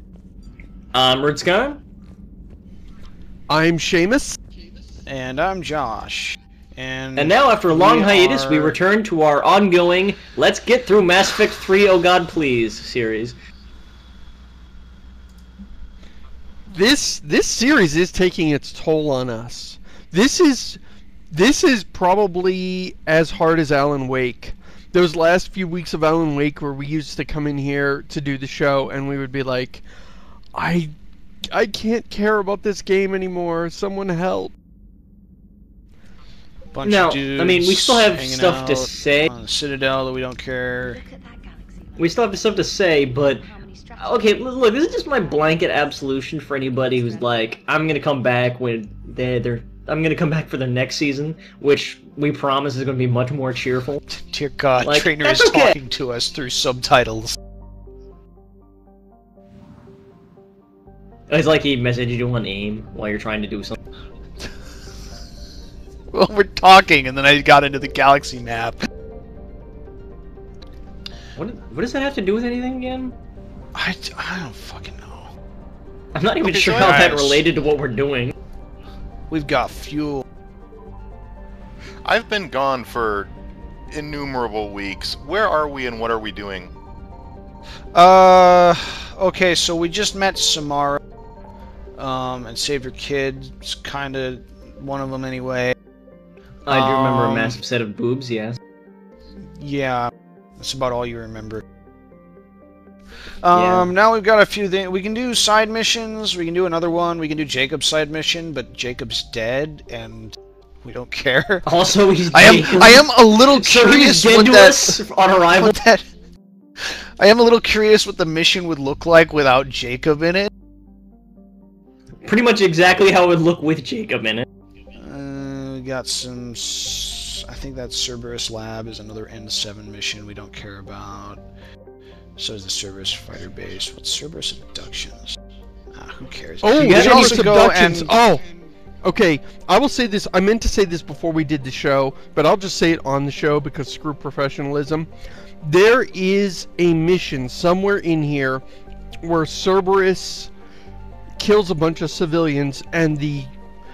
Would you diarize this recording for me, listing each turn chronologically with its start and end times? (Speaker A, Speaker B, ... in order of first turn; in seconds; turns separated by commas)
Speaker A: 0.9-1.8, Speaker B: 3.5-4.4, Speaker C: 5.1-8.8, Speaker A: 7.2-13.4, Speaker B: 16.7-20.8, Speaker B: 21.3-29.8, Speaker B: 30.5-30.9, Speaker B: 31.5-34.5, Speaker C: 36.7-41.0, Speaker A: 36.8-39.3, Speaker D: 40.8-46.0, Speaker A: 42.0-43.5, Speaker A: 44.0-54.0, Speaker D: 46.6-47.7, Speaker C: 54.1-57.4, Speaker A: 54.8-55.8, Speaker A: 61.3-63.8, Speaker C: 66.1-68.9, Speaker A: 71.4-73.2, Speaker C: 73.8-75.3, Speaker A: 76.1-78.3, Speaker E: 76.4-77.2, Speaker C: 76.8-77.4, Speaker C: 79.3-80.2, Speaker E: 82.0-83.3, Speaker E: 83.9-86.7, Speaker C: 87.9-91.0, Speaker C: 92.0-95.8, Speaker A: 96.7-98.6, Speaker C: 96.7-97.6, Speaker C: 99.5-101.6, Speaker C: 103.4-111.7, Speaker A: 103.5-103.9, Speaker A: 111.7-115.8, Speaker C: 112.3-115.0, Speaker C: 115.5-116.1, Speaker C: 116.8-120.5, Speaker A: 122.2-124.5, Speaker C: 125.0-131.4, Speaker C: 132.4-135.4, Speaker C: 135.9-138.1, Speaker B: 136.6-138.4, Speaker A: 136.8-137.5, Speaker B: 139.0-145.1, Speaker B: 145.6-148.6, Speaker B: 149.2-150.5, Speaker B: 151.4-153.5